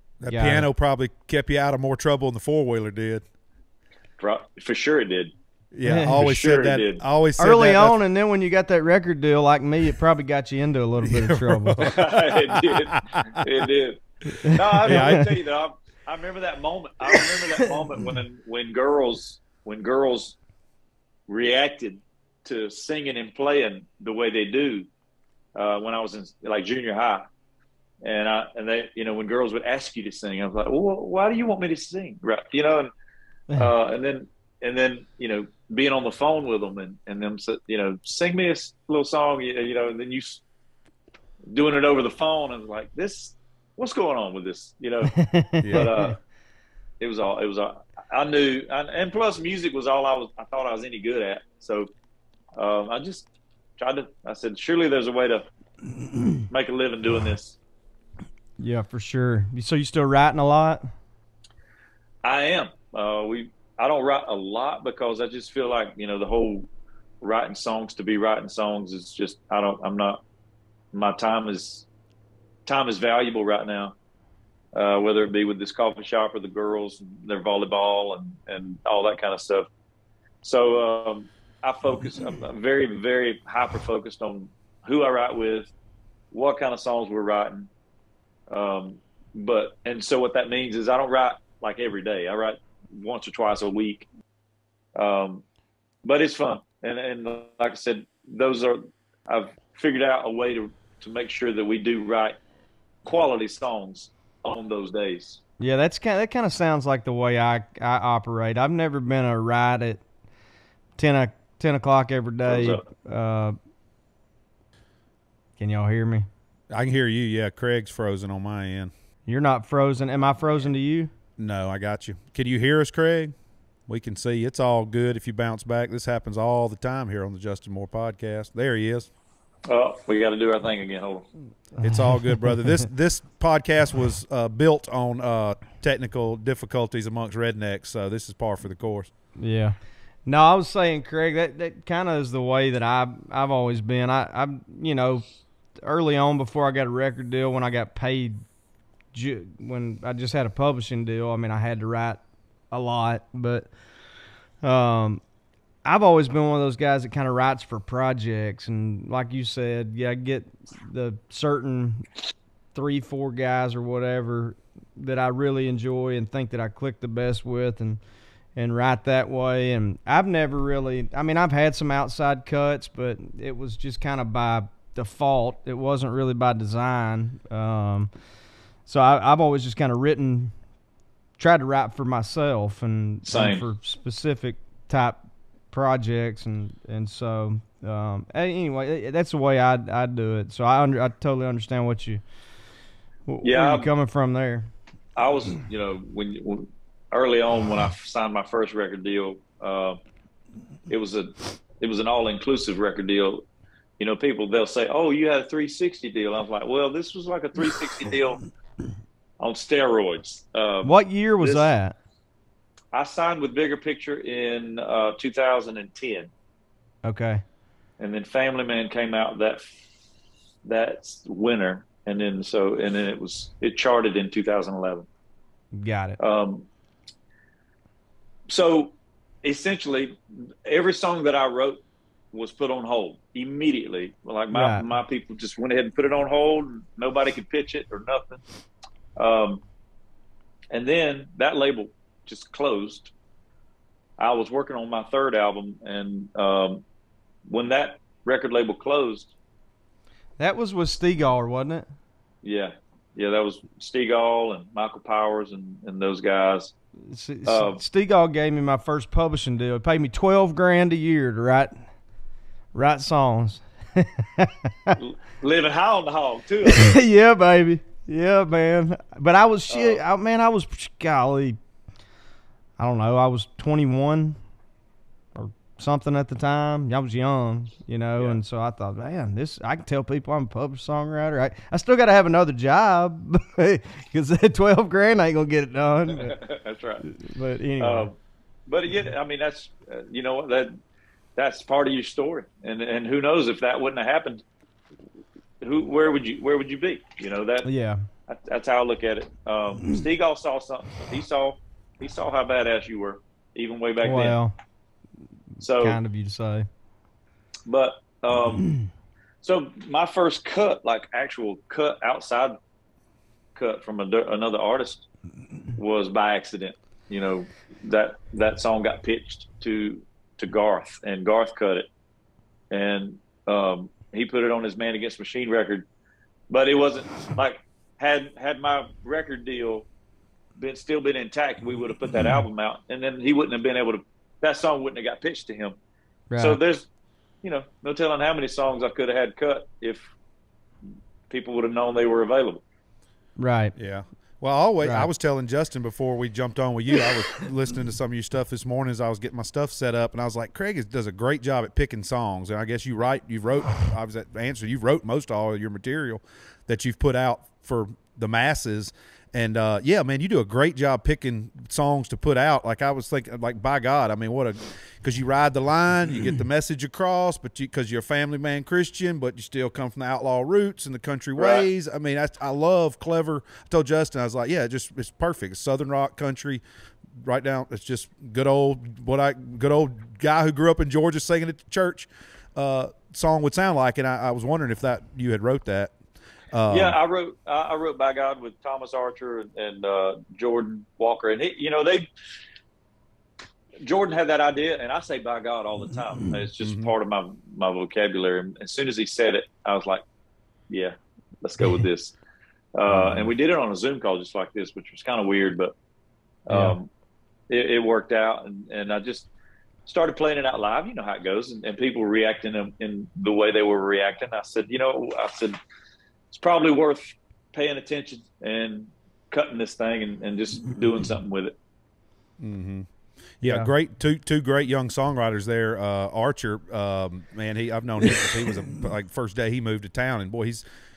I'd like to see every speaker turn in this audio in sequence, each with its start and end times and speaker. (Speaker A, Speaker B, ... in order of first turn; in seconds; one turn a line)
Speaker A: 0.2-3.2
Speaker B: 0.3-0.7
Speaker C: 4.2-5.3
Speaker A: 5.7-8.0
Speaker B: 5.8-6.1
Speaker C: 6.1-7.0
Speaker B: 7.4-11.9
Speaker A: 11.0-13.5
Speaker C: 11.8-20.4
Speaker B: 14.4-15.2
Speaker A: 14.8-15.3
Speaker C: 21.3-24.9
Speaker C: 25.5-27.3
Speaker C: 28.0-32.9
Speaker C: 33.5-40.4
Speaker C: 41.5-46.2
Speaker B: 45.1-46.1
Speaker A: 45.6-45.9
Speaker C: 47.0-51.9
Speaker C: 52.5-53.3
Speaker C: 53.8-55.4
Speaker C: 56.5-57.5
Speaker B: 58.6-60.9
Speaker C: 62.2-66.7
Speaker C: 67.2-70.2
Speaker C: 70.9-71.8
Speaker C: 72.7-73.9
Speaker C: 74.7-79.7
Speaker C: 80.4-85.7
Speaker C: 86.3-87.7
Speaker C: 88.5-94.1
Speaker C: 95.0-95.4
Speaker C: 96.0-102.3
Speaker C: 103.0-105.4
Speaker B: 105.6-110.0
Speaker B: 111.0-113.5
Speaker C: 112.5-112.8
Speaker B: 115.6-116.3
Speaker A: 116.7-118.9
Speaker B: 119.3-121.1
Speaker A: 121.4-123.3
Speaker A: 123.9-129.1
Speaker C: 129.7-131.3
Speaker B: 131.8-132.8
Speaker A: 131.8-139.1
Speaker B: 139.4-145.2
Speaker B: 145.8-148.4
Speaker B: 149.1-153.7
Speaker B: 154.6-155.2
Speaker B: 155.8-162.1
Speaker B: 162.7-168.0
Speaker B: 168.6-178.1
Speaker B: 178.8-180.5
Speaker B: 181.4-192.2
Speaker C: 183.2-183.6
Speaker B: 193.3-194.7
Speaker C: 193.4-193.9
Speaker C: 195.2-200.0
Speaker C: 200.9-203.4
Speaker C: 204.0-208.4
Speaker C: 209.4-211.7
Speaker B: 210.8-211.9
Speaker C: 212.9-216.3
Speaker B: 217.0-217.4
Speaker C: 218.0-219.8
Speaker C: 220.7-225.1
Speaker B: 225.7-226.2
Speaker C: 226.2-226.7
Speaker C: 228.5-238.4
Speaker B: 234.5-234.9
Speaker C: 239.2-239.6
Speaker C: 240.7-243.1
Speaker C: 244.2-246.8
Speaker C: 247.5-249.3
Speaker B: 250.4-251.9
Speaker C: 252.4-256.7
Speaker B: 257.1-261.7
Speaker C: 257.4-257.8
Speaker B: 262.7-265.0
Speaker C: 264.9-267.0
Speaker B: 266.7-271.6
Speaker C: 269.7-270.0
Speaker B: 272.8-274.4
Speaker B: 275.3-286.4
Speaker C: 286.1-287.1
Speaker B: 287.1-288.1
Speaker C: 287.8-288.1
Speaker C: 288.7-290.8
Speaker C: 291.4-294.4
Speaker C: 295.6-297.7
Speaker B: 297.6-298.0
Speaker C: 298.3-304.4
Speaker B: 304.0-304.5
Speaker B: 305.6-306.7
Speaker C: 305.6-306.0
Speaker C: 307.7-308.7
Speaker C: 309.4-312.6
Speaker C: 313.5-315.1
Speaker C: 315.8-321.9
Speaker C: 322.7-325.9
Speaker C: 326.5-329.9
Speaker C: 330.6-335.8
Speaker B: 336.3-336.6
Speaker C: 336.4-336.9
Speaker C: 337.4-340.0
Speaker C: 341.3-342.6
Speaker B: 343.4-343.7
Speaker A: 343.8-376.6
Speaker B: 344.8-345.1
Speaker C: 371.4-371.7
Speaker A: 377.2-385.9
Speaker A: 386.5-387.0
Speaker C: 386.7-392.1
Speaker C: 393.8-400.0
Speaker A: 396.6-396.9
Speaker C: 400.7-402.1
Speaker C: 402.7-405.7
Speaker A: 402.9-403.3
Speaker C: 406.5-406.9
Speaker C: 407.5-409.3
Speaker C: 409.9-415.6
Speaker C: 416.3-421.5
Speaker A: 422.4-422.9
Speaker A: 423.4-430.6
Speaker B: 423.4-423.7